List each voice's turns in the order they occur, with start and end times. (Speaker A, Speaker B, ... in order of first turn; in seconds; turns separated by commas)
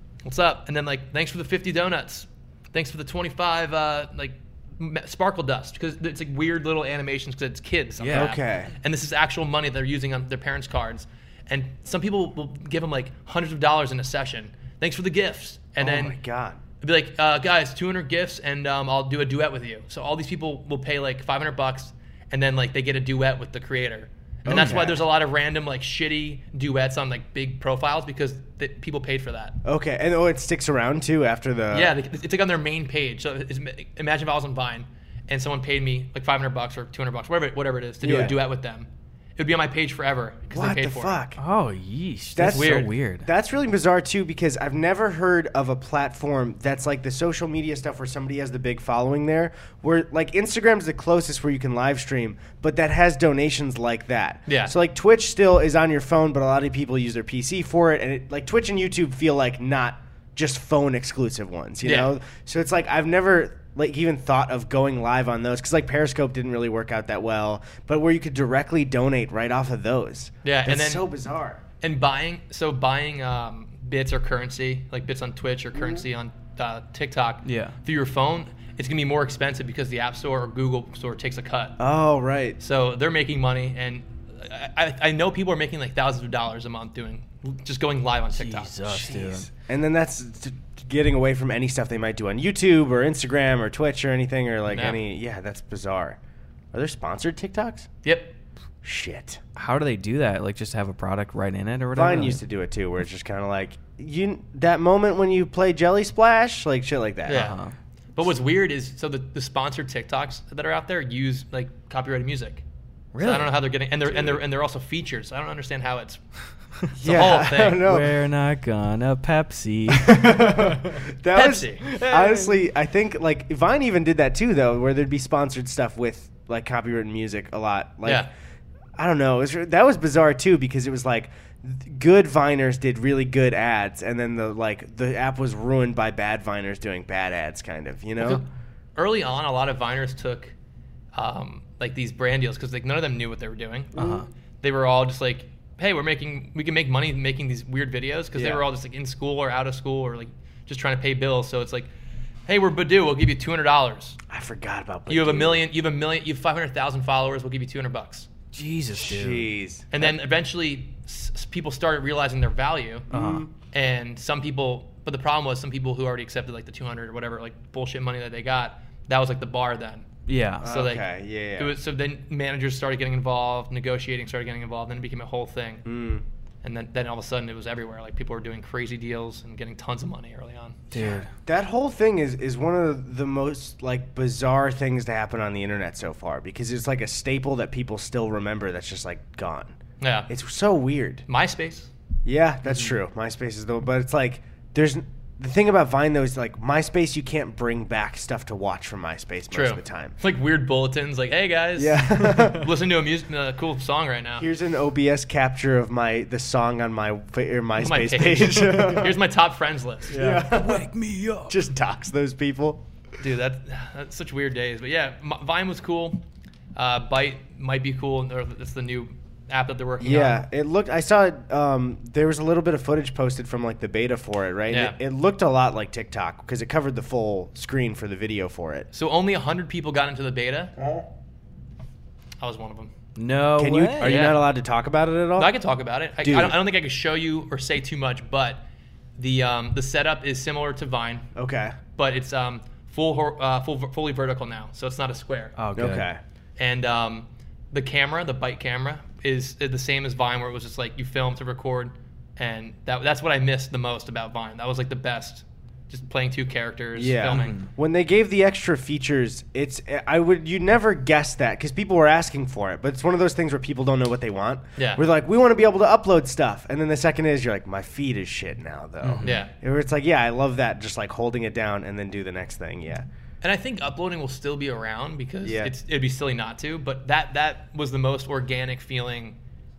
Speaker A: 0.2-16.2, Speaker B: 8.0-8.3, Speaker C: 8.1-8.7, Speaker C: 15.8-16.6, Speaker A: 16.8-29.6, Speaker C: 24.4-25.1, Speaker B: 24.5-24.8, Speaker C: 29.6-31.9, Speaker A: 31.7-41.2, Speaker C: 38.0-38.3, Speaker C: 40.5-41.4, Speaker B: 41.4-43.3, Speaker C: 42.3-71.6, Speaker A: 42.4-42.9, Speaker A: 54.5-54.7, Speaker A: 61.8-62.1, Speaker A: 70.4-71.0, Speaker A: 71.8-81.8, Speaker C: 75.8-76.0, Speaker B: 77.4-77.7, Speaker C: 81.8-82.6, Speaker A: 82.6-88.7, Speaker B: 88.3-89.5, Speaker C: 88.8-96.2, Speaker A: 94.7-95.0, Speaker C: 96.7-97.9, Speaker A: 98.0-98.3, Speaker C: 98.8-99.4, Speaker B: 99.5-102.4, Speaker C: 101.9-107.5, Speaker A: 107.3-107.6, Speaker B: 107.3-107.7, Speaker A: 108.1-112.6, Speaker B: 113.1-113.5, Speaker A: 113.2-116.2, Speaker C: 114.1-114.4, Speaker C: 117.0-118.2, Speaker A: 117.0-117.8, Speaker B: 117.8-121.0, Speaker C: 119.9-128.2, Speaker A: 121.3-121.8, Speaker B: 121.9-122.6, Speaker A: 128.0-128.3, Speaker C: 129.0-138.4, Speaker A: 138.9-140.5, Speaker A: 141.1-151.9, Speaker B: 143.9-144.2, Speaker C: 148.3-148.6, Speaker A: 152.5-154.2, Speaker C: 154.3-155.7, Speaker A: 155.1-158.3, Speaker B: 158.5-159.5, Speaker C: 159.0-160.1, Speaker A: 159.9-163.1, Speaker B: 163.1-163.4, Speaker C: 163.1-163.5, Speaker A: 163.7-170.1, Speaker B: 170.3-170.7, Speaker C: 170.6-171.8, Speaker A: 170.6-171.1, Speaker A: 171.6-175.8, Speaker C: 175.8-176.2, Speaker A: 176.6-180.8, Speaker B: 180.9-181.3, Speaker C: 180.9-189.8, Speaker A: 190.0-190.3, Speaker C: 190.3-191.2, Speaker A: 191.3-191.9, Speaker C: 192.2-200.1, Speaker A: 199.5-204.5, Speaker C: 201.8-202.7, Speaker C: 204.4-209.2, Speaker A: 207.8-210.2, Speaker B: 208.5-209.1, Speaker B: 210.1-211.6, Speaker C: 210.1-210.9, Speaker C: 211.5-212.8, Speaker A: 213.2-216.2, Speaker A: 216.7-220.4, Speaker C: 220.0-228.9, Speaker A: 224.7-224.9, Speaker A: 228.9-230.7, Speaker C: 230.8-231.0, Speaker A: 232.4-232.9, Speaker B: 233.2-234.2, Speaker C: 233.6-235.5, Speaker A: 234.0-234.4, Speaker A: 235.4-238.6, Speaker C: 236.2-236.6, Speaker A: 239.2-241.3, Speaker C: 241.3-241.8, Speaker A: 241.9-245.5, Speaker B: 245.6-246.1, Speaker C: 245.7-246.2, Speaker A: 246.6-257.6, Speaker C: 256.9-273.1, Speaker B: 257.3-257.7, Speaker A: 264.8-265.0, Speaker B: 269.0-269.4, Speaker A: 269.2-269.5, Speaker A: 273.4-279.4, Speaker C: 275.4-275.7